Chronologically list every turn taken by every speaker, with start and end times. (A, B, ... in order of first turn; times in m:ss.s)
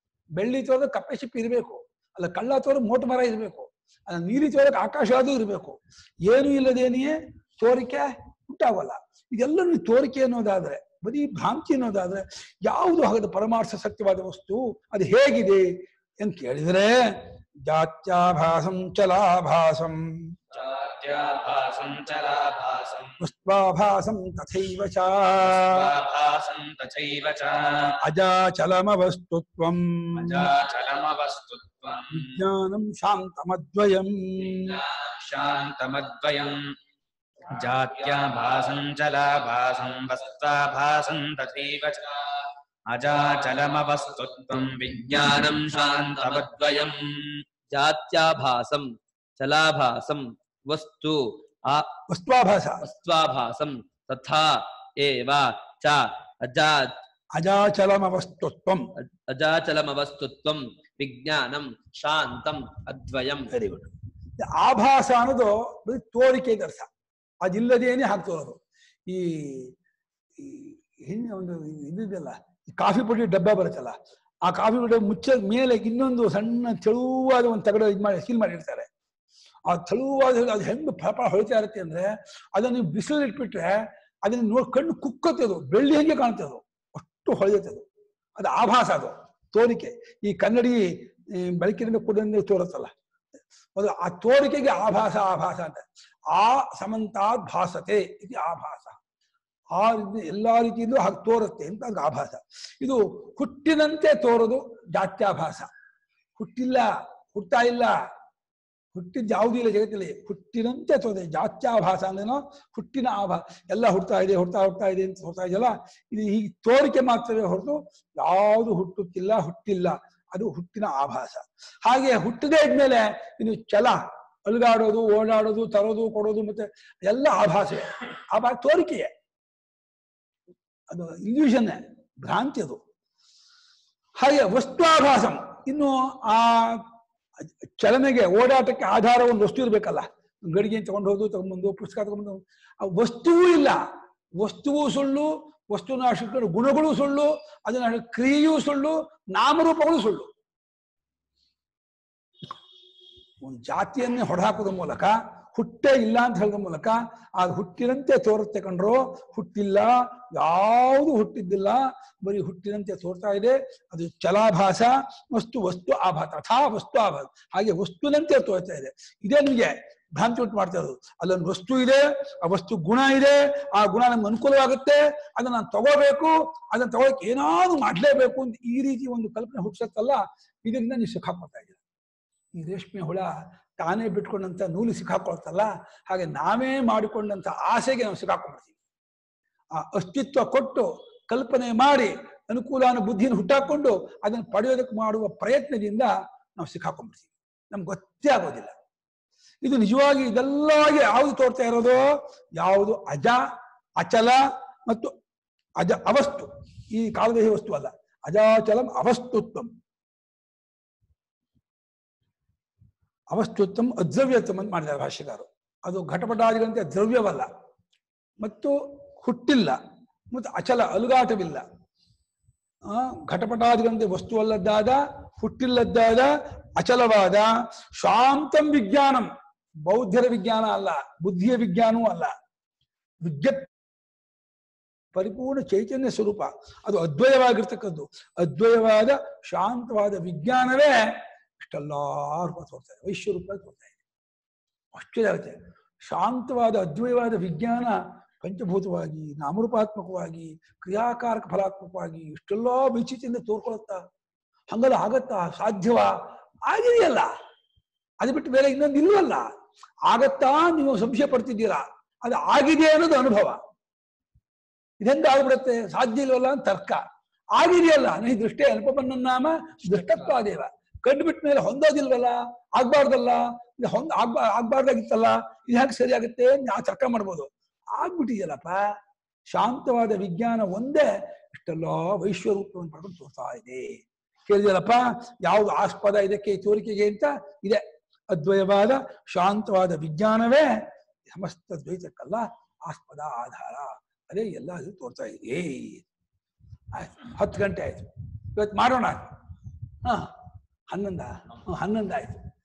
0:00.4-0:20.4 A
0:20.5-0:23.2 B
0:23.2-0:25.9 A
0:25.4-0:28.0 B
0:28.0-0:30.5 A
0:30.2-0:32.4 B
0:32.1-0:34.8 A
0:34.5-0:36.8 B
0:37.5-0:42.1 B
0:42.9-0:47.4 B
0:46.1-0:46.5 C
0:47.7-0:52.0 C
0:52.1-0:52.8 A
0:52.8-0:57.0 C
0:57.3-0:58.9 A
0:59.3-1:03.5 C
1:03.5-1:06.9 A
1:07.4-1:09.8 A
1:10.4-1:18.9 A
1:19.7-1:27.9 A
1:28.4-1:32.9 A
1:33.8-1:39.0 A
1:39.8-1:45.7 A
1:46.4-1:48.1 A
1:48.9-2:09.1 A
2:10.9-2:12.8 A
2:14.2-2:16.9 A
2:17.8-2:23.8 A
2:24.4-2:30.3 A
2:33.4-3:01.8 A
3:02.6-3:08.7 A
3:09.8-3:18.8 A
3:19.6-3:25.2 A
3:25.8-3:29.7 A
3:33.3-3:37.5 A
3:38.4-3:39.8 A
3:40.3-3:41.6 A
3:42.9-3:49.3 A
3:49.9-3:52.3 A
3:53.2-3:53.7 A
3:55.1-4:04.0 A
4:04.9-4:14.0 A
4:14.7-4:17.3 A
4:18.2-4:19.5 A
4:20.1-4:23.6 A
4:25.0-4:27.0 A
4:27.6-4:39.0 A
4:39.5-4:56.0 A
4:56.9-4:59.3 A
5:00.0-5:00.3 A
5:00.9-5:02.4 A